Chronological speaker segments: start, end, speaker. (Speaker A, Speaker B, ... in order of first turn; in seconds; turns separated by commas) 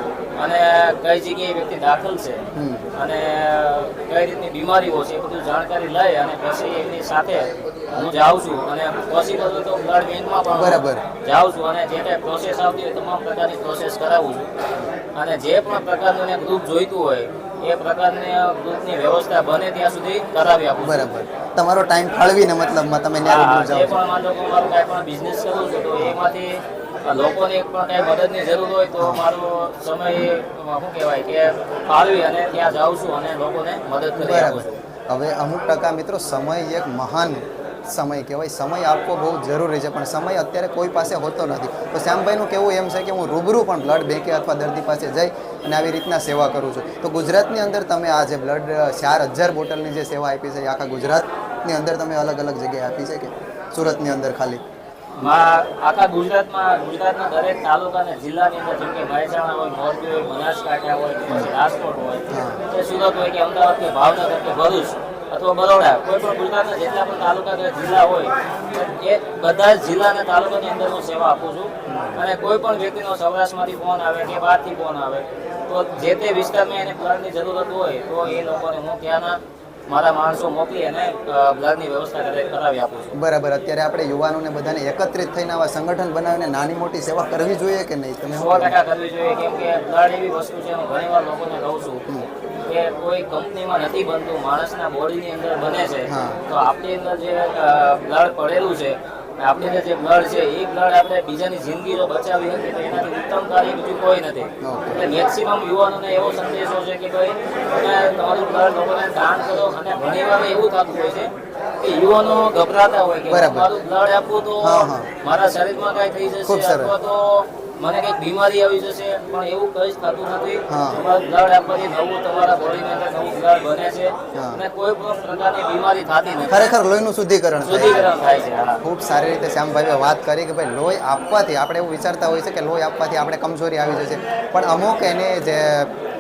Speaker A: 0.4-2.4, Speaker B: 2.5-2.9, Speaker A: 3.0-14.5, Speaker B: 10.5-11.0, Speaker A: 15.2-21.1, Speaker B: 20.8-24.0, Speaker A: 23.2-34.8, Speaker B: 29.0-29.3, Speaker B: 34.2-54.6, Speaker A: 55.2-83.1, Speaker B: 62.3-62.6, Speaker B: 71.9-72.2, Speaker B: 83.2-88.8, Speaker A: 88.3-92.0, Speaker A: 92.7-126.7, Speaker B: 96.1-96.4, Speaker B: 104.6-105.0, Speaker B: 113.3-113.7, Speaker B: 114.6-115.1, Speaker B: 116.4-116.9, Speaker B: 120.7-121.0, Speaker B: 124.3-124.6, Speaker B: 126.5-128.1, Speaker A: 127.6-128.8, Speaker B: 128.8-135.9